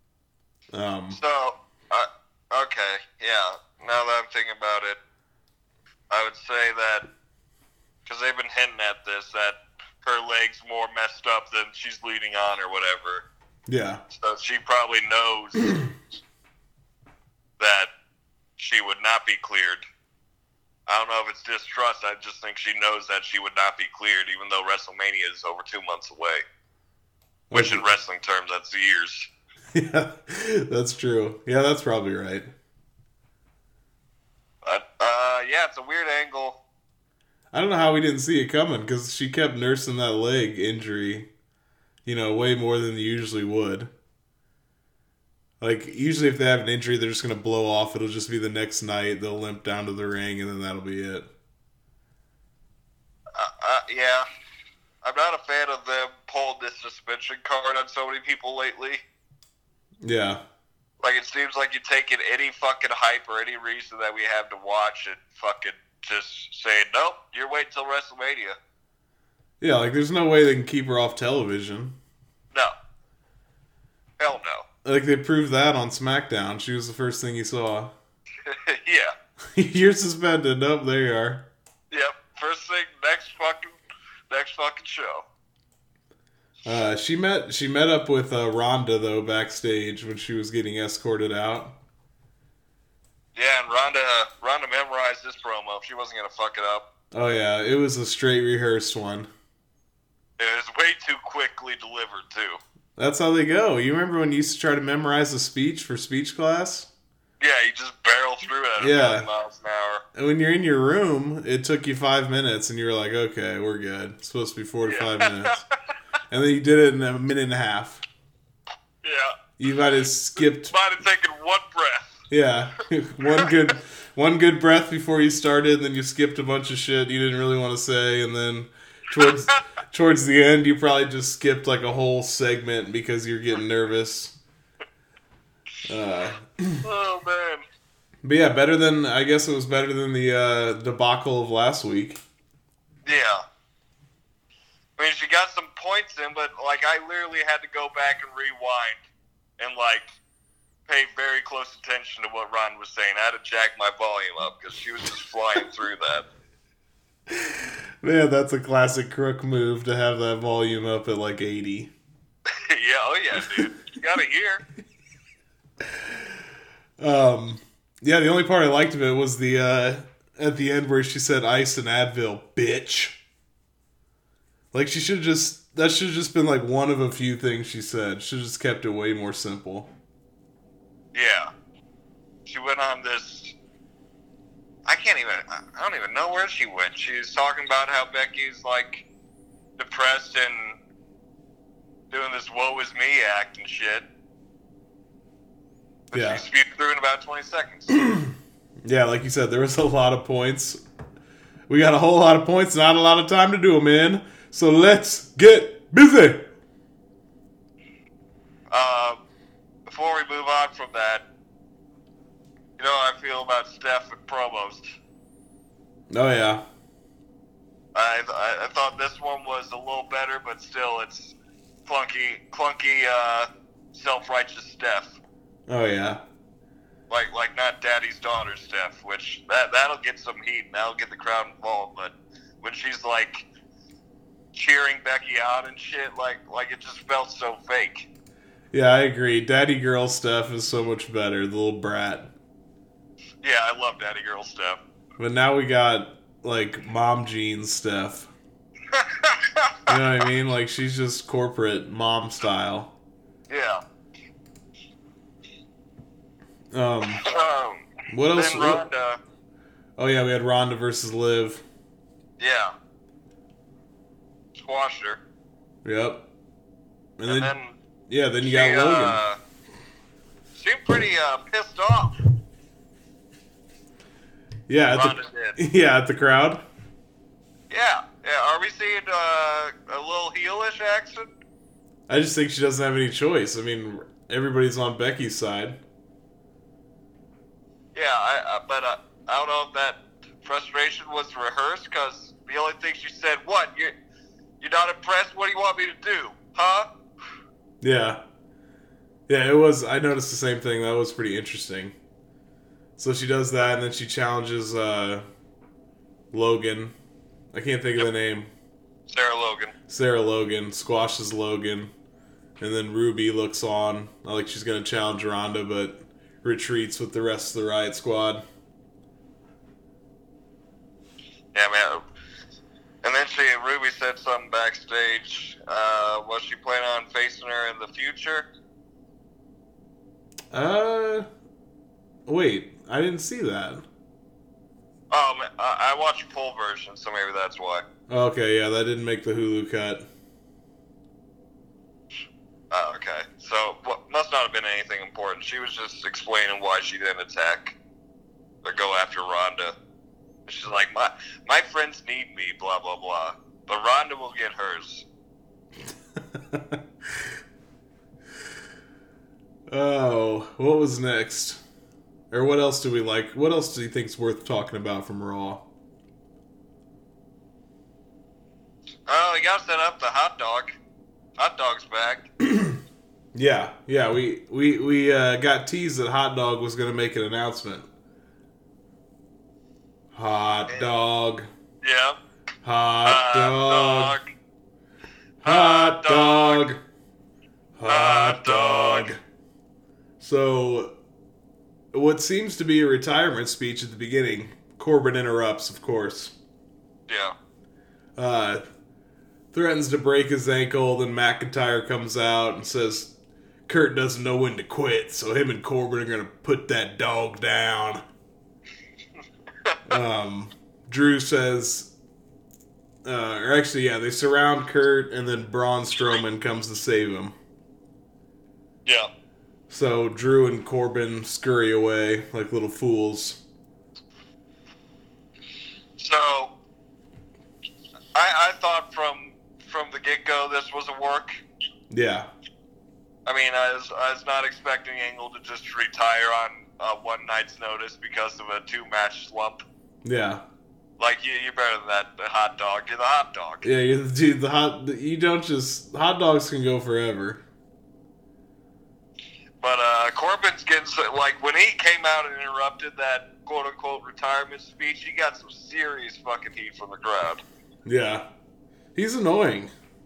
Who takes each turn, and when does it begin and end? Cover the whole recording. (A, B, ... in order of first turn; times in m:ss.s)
0:00.7-0:01.2 A
0:01.1-0:05.0 B
0:06.1-0:07.0 B
0:08.0-0:13.2 B
0:13.7-0:14.0 A
0:14.1-0:15.7 B
0:17.6-0:17.9 B
0:18.6-0:19.9 B
0:20.9-0:26.4 B
0:27.5-0:29.3 B
0:27.5-0:27.8 A
0:29.7-0:32.5 A
0:34.6-0:36.6 B
0:37.5-0:41.3 A
0:42.0-0:43.9 A
0:45.6-0:51.3 A
0:53.4-0:54.2 B
0:55.0-0:59.0 B
1:00.0-1:00.4 A
1:01.0-1:08.6 B
1:09.6-1:12.0 A
1:14.2-1:14.6 B
1:14.8-1:17.9 A
1:18.5-1:19.1 B
1:19.5-1:21.5 A
1:21.9-1:23.8 B
1:24.3-1:25.2 B
1:26.6-1:31.8 A
1:33.4-1:36.9 B
1:37.1-1:39.3 A
1:40.4-1:42.6 B
1:43.0-1:46.9 A
1:47.4-1:50.0 B
1:48.8-1:49.3 A
1:50.1-1:55.6 A
1:54.9-1:55.6 B
1:56.3-1:58.0 A
1:59.0-1:59.4 B
1:59.6-2:00.7 A
2:00.7-2:02.2 B
2:02.3-2:14.4 A
2:15.9-2:16.8 A
2:16.8-2:17.6 B
2:18.2-2:22.2 A
2:23.0-2:23.4 B
2:25.0-2:29.0 B
2:29.6-2:30.1 B
2:30.9-2:36.2 B
2:37.3-2:41.9 A
2:42.5-2:44.6 B
2:43.4-2:43.7 A
2:47.0-2:53.2 A
2:54.7-2:59.9 A
3:01.1-3:01.5 B
3:02.5-3:03.5 B
3:04.9-3:09.0 B
3:09.8-3:10.8 B
3:12.1-3:14.0 B
3:16.1-3:18.0 B
3:16.1-3:16.4 A
3:17.9-3:20.8 A
3:21.7-3:26.5 A
3:28.7-3:29.2 B
3:29.9-3:31.2 B
3:32.8-3:34.9 B
3:36.1-3:36.6 A
3:37.9-3:41.4 B
3:41.9-3:45.2 B
3:45.7-3:46.2 A
3:47.1-3:53.4 B
3:54.5-3:58.1 B
3:58.7-4:02.3 A
4:03.4-4:04.8 B
4:05.2-4:08.3 A
4:08.9-4:09.9 B
4:09.9-4:12.9 A
4:13.5-4:13.8 B
4:16.7-4:17.2 A
4:17.2-4:19.2 B
4:18.1-4:18.9 A
4:20.0-4:21.6 A
4:22.4-4:22.7 B
4:24.6-4:25.2 B
4:25.8-4:26.3 A
4:27.2-4:27.5 A
4:27.3-4:27.8 B
4:28.1-4:29.2 A
4:28.4-4:29.4 B
4:30.5-4:32.1 B
4:34.7-4:36.6 A
4:35.0-4:35.6 B
4:37.7-4:41.3 B
4:42.1-4:45.8 A
4:47.9-4:53.9 B
4:54.6-4:56.9 B
4:57.8-4:58.2 A
4:59.3-5:02.0 A
5:03.0-5:05.2 A
5:06.3-5:07.0 A
5:07.5-5:08.5 A
5:09.1-5:09.7 B
5:09.9-5:11.9 A
5:12.6-5:18.4 A
5:21.5-5:22.0 B
5:23.0-5:28.5 B
5:30.5-5:31.3 A
5:32.2-5:33.9 A
5:35.1-5:37.8 B
5:38.1-5:40.1 A
5:42.7-5:47.8 B
5:48.6-5:49.8 B
5:50.5-5:55.0 B
5:56.2-5:56.8 A
5:59.7-6:01.6 A
6:02.3-6:05.7 A
6:09.1-6:10.7 B
6:11.4-6:12.3 B
6:12.4-6:12.8 A
6:13.3-6:17.9 A
6:20.1-6:21.5 A
6:21.8-6:22.2 B
6:22.6-6:24.2 A
6:23.0-6:24.2 B
6:25.4-6:26.8 A
6:25.4-6:26.6 B
6:27.8-6:29.2 A
6:27.9-6:29.1 B
6:30.2-6:31.0 A
6:31.9-6:36.4 A
6:37.1-6:37.3 B
6:38.2-6:38.6 A
6:39.5-6:43.1 A
6:43.7-6:48.0 A
6:49.9-6:51.9 A
6:53.0-6:57.4 A
6:59.7-7:03.4 A
7:06.0-7:06.5 B
7:08.1-7:11.3 B
7:11.9-7:12.3 A
7:13.2-7:19.6 B
7:20.0-7:20.4 A
7:21.0-7:23.6 B
7:23.6-7:27.4 A
7:29.6-7:37.4 B
7:37.8-7:38.3 A
7:39.0-7:39.7 A